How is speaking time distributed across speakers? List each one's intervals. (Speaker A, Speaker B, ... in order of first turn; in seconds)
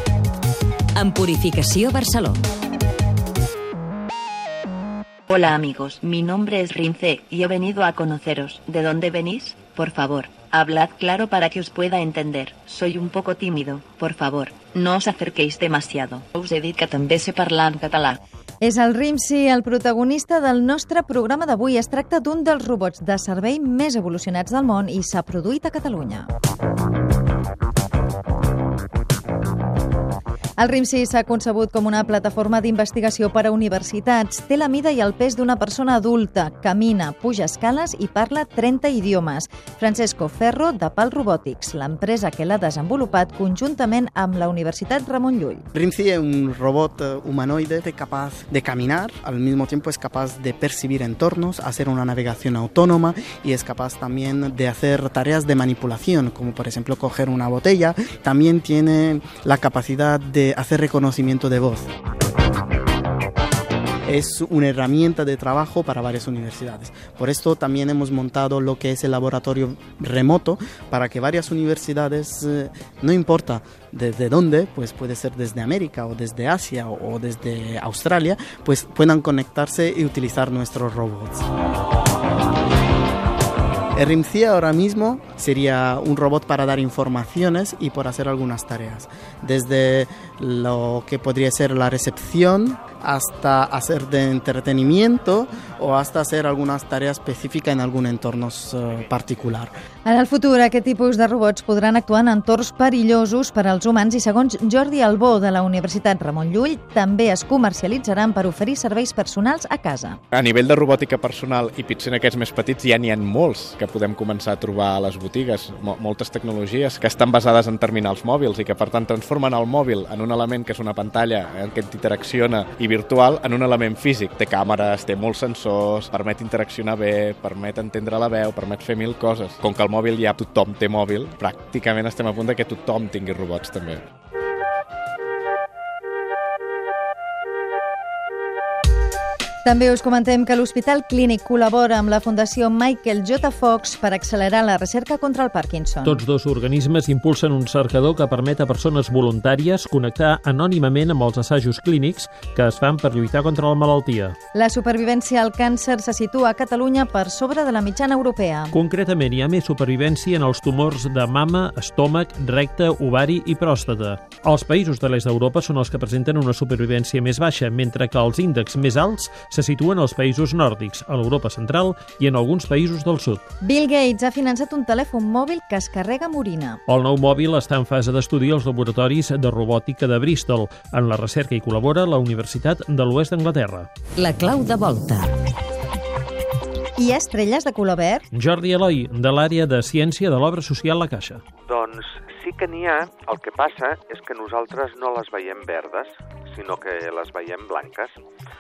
Speaker A: 1.0-2.4, 184.2-185.3
Speaker B: 5.3-18.2
Speaker C: 18.6-26.3, 30.6-45.6, 100.0-110.2, 139.7-146.2, 154.6-158.7, 173.6-176.8, 187.0-188.3
Speaker D: 45.7-61.9, 64.1-81.5, 84.0-99.7
Speaker E: 110.3-134.0
Speaker F: 146.0-154.4, 158.7-173.4, 176.9-183.9, 188.3-191.4
Speaker G: 191.7-198.1